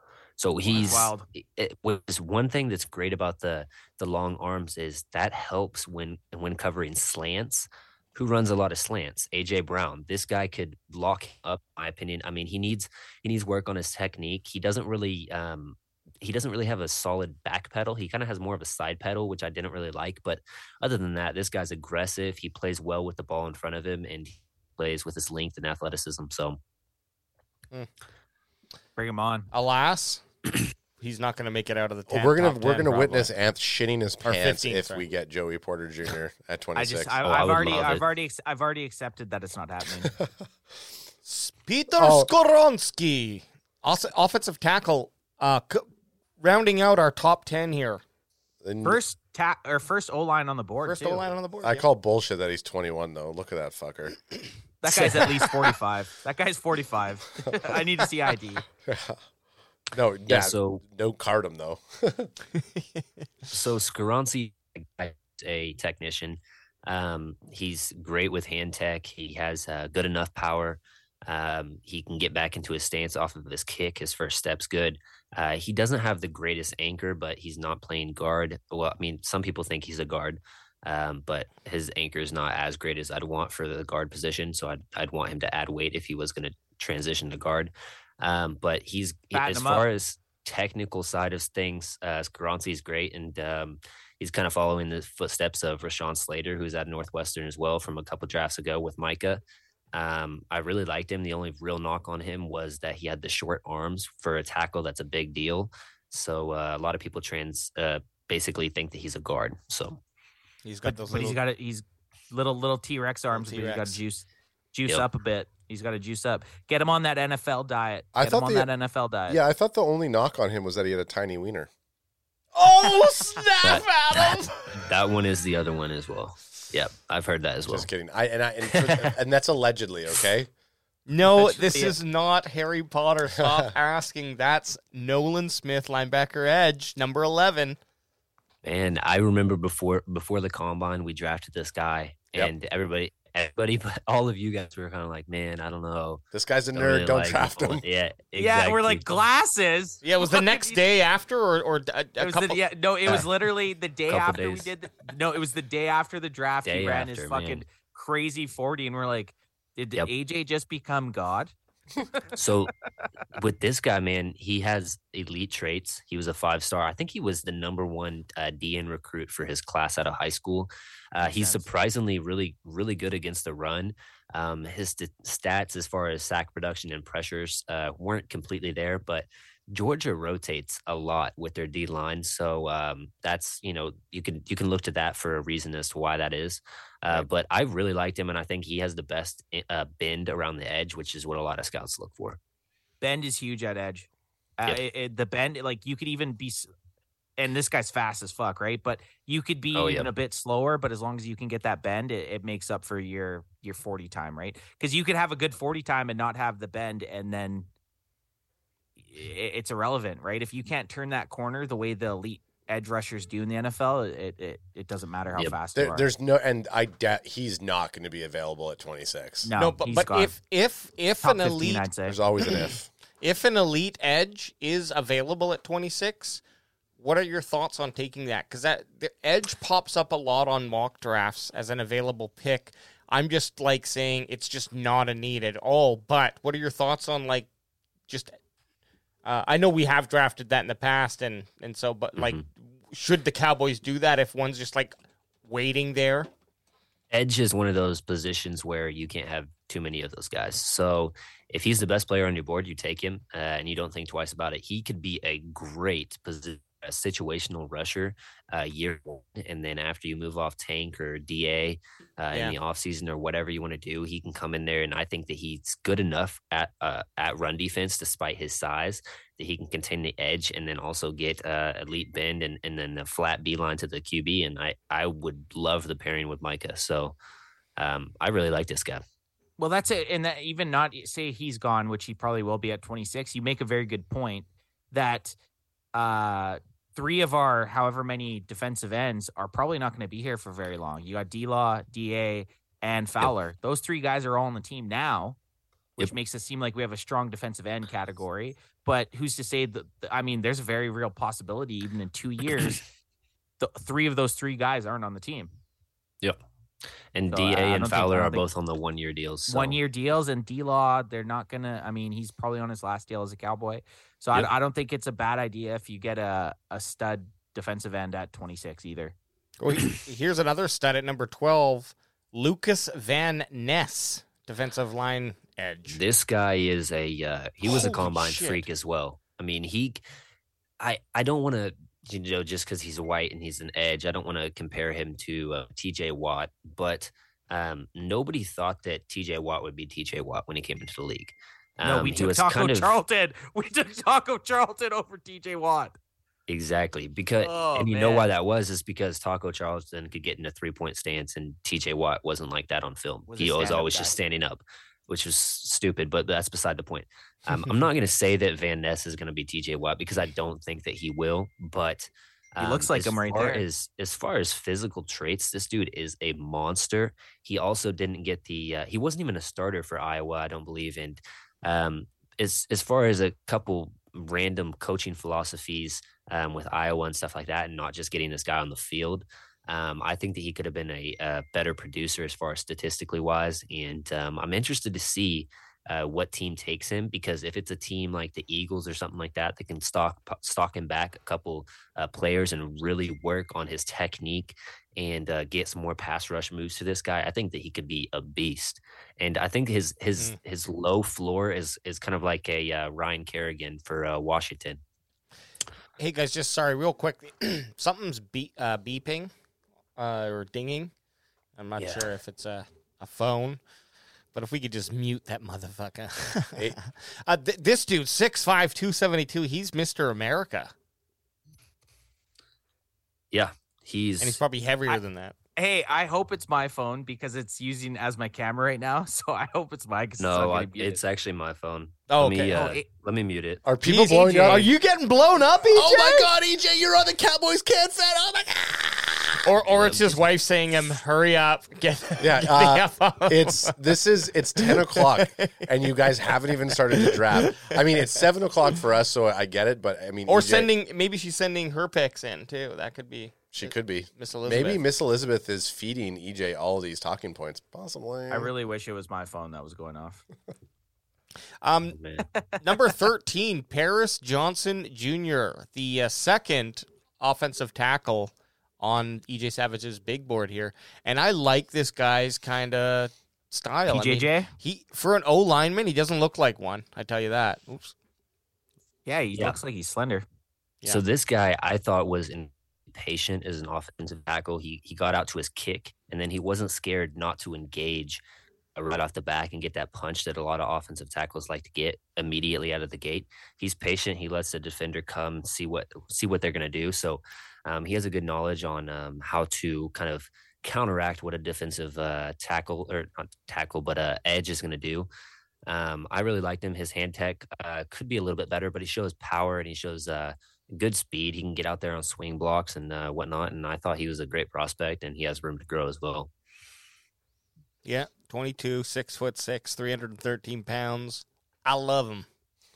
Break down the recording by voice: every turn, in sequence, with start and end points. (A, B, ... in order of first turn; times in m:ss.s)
0:00.4-0:26.6 A
0:00.6-0:01.3 B
0:29.0-0:29.5 B
0:29.5-0:30.2 C
0:31.0-0:33.3 C
0:32.1-0:37.2 D
0:34.2-0:35.0 C
0:36.8-0:40.1 B
0:37.2-0:38.0 A
0:41.3-0:45.9 C
0:42.0-0:42.3 D
0:46.4-0:48.0 C
0:48.6-0:49.0 D
0:48.8-0:51.3 B
0:50.8-0:51.8 C
0:51.6-0:54.2 D
0:54.8-0:58.6 B
0:58.9-0:59.2 D
0:59.9-1:02.3 D
1:00.3-1:00.8 A
1:03.5-1:39.4 A
1:29.3-1:29.9 B
1:39.9-1:50.0 A
1:50.6-1:51.4 C
1:50.9-1:59.4 B
1:53.3-1:54.0 C
1:58.2-1:58.7 D
1:59.3-2:01.7 D
2:02.6-2:04.5 C
2:03.6-2:07.9 A
2:07.7-2:10.5 D
2:11.1-2:17.8 C
2:11.3-2:12.0 B
2:18.6-2:26.2 A
2:26.3-2:27.8 D
2:26.7-2:29.2 A
2:28.4-2:30.8 B
2:30.0-2:32.6 C
2:32.2-2:41.5 B
2:34.1-2:34.7 A
2:36.6-2:37.7 A
2:42.4-2:42.7 A
2:43.3-3:12.4 A
2:51.2-2:51.7 B
3:13.0-3:14.1 B
3:14.6-3:16.7 B
3:17.4-3:27.7 B
3:19.7-3:20.1 A
3:29.0-3:36.1 B
3:35.8-3:39.5 D
3:39.4-3:40.4 B
3:39.6-3:41.9 C
3:41.2-3:42.2 B
3:42.1-3:42.9 D
3:43.2-3:46.4 C
3:47.0-3:57.5 C
3:58.1-3:58.3 C
3:59.2-4:04.9 C
4:02.2-4:02.4 A
4:05.4-4:06.3 C
4:07.1-4:37.2 A
4:22.3-4:22.6 C
4:37.8-4:39.0 A
4:39.6-4:45.4 B
4:45.9-4:55.4 B
4:56.0-5:02.8 B
5:03.6-5:05.5 B
5:07.1-5:09.8 A
5:07.3-5:08.4 B
5:09.5-5:19.2 B
5:19.6-5:26.0 C
5:25.9-5:30.0 A
5:27.6-5:28.6 C
5:30.8-5:43.0 A
5:41.8-5:46.0 B
5:46.5-6:44.8 A
5:47.4-5:48.3 B
5:53.3-5:54.2 B
6:02.6-6:03.6 B
6:46.0-6:49.3 C
6:50.0-6:50.9 C
6:51.6-6:53.6 C
6:51.8-6:52.1 A
6:54.3-7:00.7 C
7:03.3-7:04.4 A
7:04.2-7:05.4 C
7:05.6-7:11.0 B
7:10.2-7:13.6 A
7:12.1-7:12.7 C
7:12.5-7:12.9 B
7:13.7-7:14.8 D
7:13.8-7:16.3 C
7:15.7-7:19.5 D
7:19.4-7:23.9 C
7:19.7-7:20.2 A
7:22.2-7:30.7 D
7:24.6-7:25.9 C
7:26.7-7:28.0 C
7:30.3-7:34.8 C
7:33.5-7:38.5 D
7:38.3-7:40.2 B
7:41.6-7:42.0 C
7:42.0-7:42.2 A
7:42.4-7:42.6 B
7:42.6-7:57.9 C
7:53.9-7:54.5 B
7:59.1-8:00.2 B
8:00.9-8:08.2 A
8:08.8-8:25.1 A
8:25.7-8:36.3 A
8:37.8-8:42.3 C